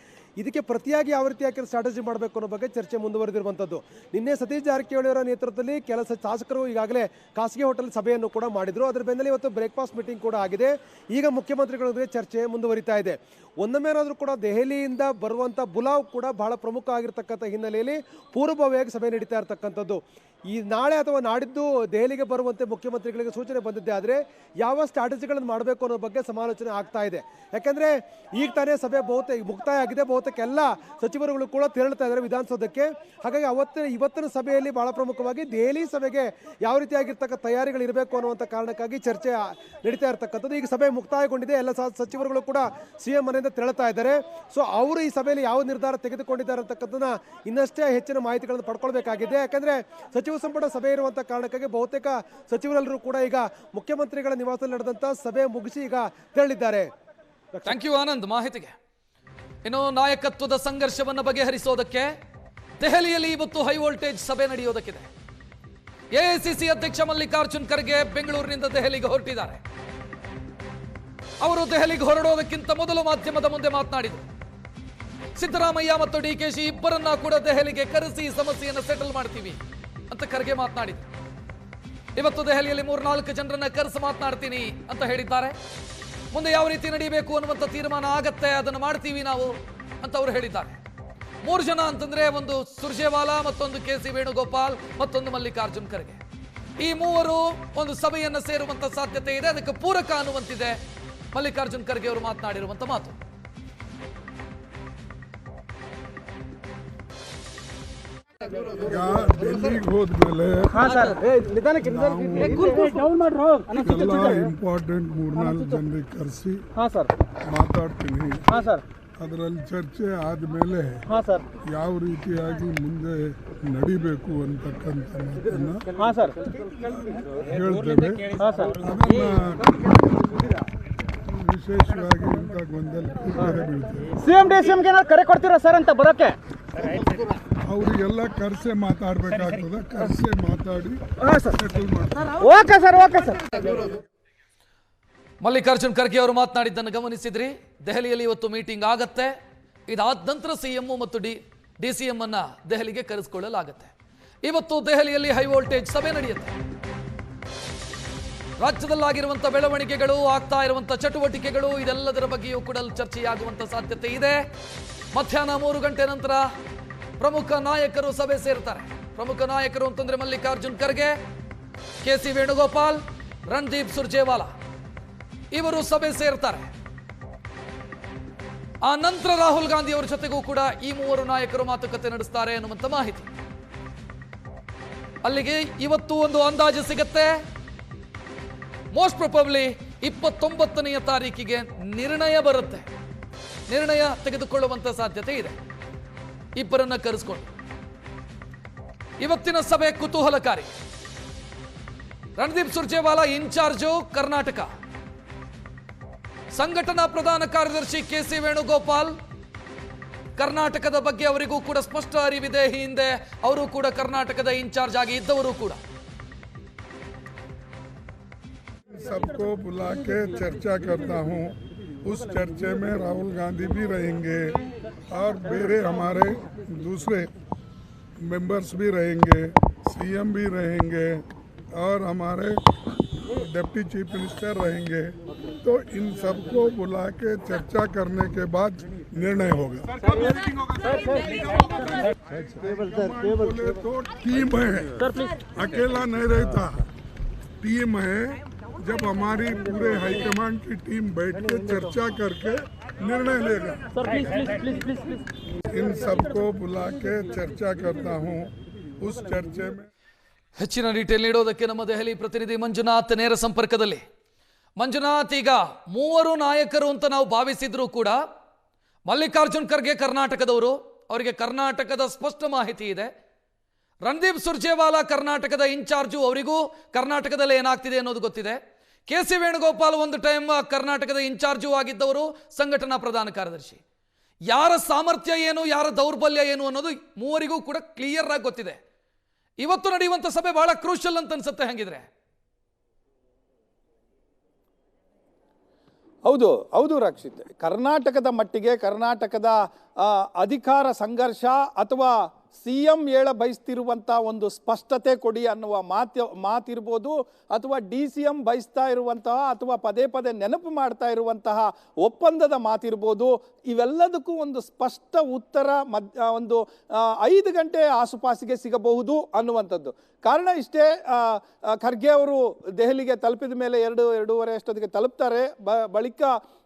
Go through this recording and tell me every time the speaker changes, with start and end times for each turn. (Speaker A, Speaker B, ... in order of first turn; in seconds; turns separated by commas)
Speaker A: 0.4-20.0, Speaker A: 20.5-56.9, Speaker B: 57.6-58.7, Speaker B: 59.6-62.1, Speaker B: 62.8-65.1, Speaker B: 66.1-69.6, Speaker B: 71.4-74.2, Speaker B: 75.3-81.1, Speaker B: 82.2-85.6, Speaker B: 86.3-90.8, Speaker B: 91.4-96.2, Speaker B: 96.8-100.8, Speaker B: 101.3-103.2, Speaker C: 108.8-110.9, Speaker D: 110.7-114.4, Speaker C: 111.8-112.8, Speaker C: 113.7-116.6, Speaker D: 116.8-117.1, Speaker C: 117.5-118.6, Speaker D: 118.5-118.8, Speaker C: 119.2-121.1, Speaker D: 121.1-121.4, Speaker C: 121.7-125.9, Speaker D: 126.0-126.4, Speaker C: 126.8-130.3, Speaker D: 128.4-128.7, Speaker C: 131.3-134.1, Speaker D: 134.2-136.4, Speaker C: 137.7-142.4, Speaker D: 142.4-143.9, Speaker B: 145.4-149.3, Speaker B: 149.9-153.9, Speaker B: 154.4-156.6, Speaker B: 158.6-164.4, Speaker B: 165.1-166.5, Speaker B: 167.2-171.2, Speaker B: 172.0-174.5, Speaker B: 175.5-176.7, Speaker B: 178.8-183.3, Speaker B: 185.2-187.4, Speaker B: 188.9-192.9, Speaker B: 193.7-195.6, Speaker B: 196.6-197.5, Speaker B: 199.2-200.7, Speaker B: 202.4-204.7, Speaker B: 206.5-209.2, Speaker B: 210.4-215.8, Speaker C: 218.9-224.6, Speaker C: 225.1-227.3, Speaker C: 228.2-232.6, Speaker C: 233.3-235.1, Speaker C: 235.6-246.8, Speaker D: 240.9-241.2, Speaker C: 247.6-253.8, Speaker D: 254.0-255.2, Speaker C: 255.7-259.9, Speaker B: 260.6-264.0, Speaker B: 264.8-268.2, Speaker B: 269.1-273.1, Speaker B: 274.0-283.8, Speaker B: 284.5-288.8, Speaker B: 289.6-292.1, Speaker E: 296.2-326.3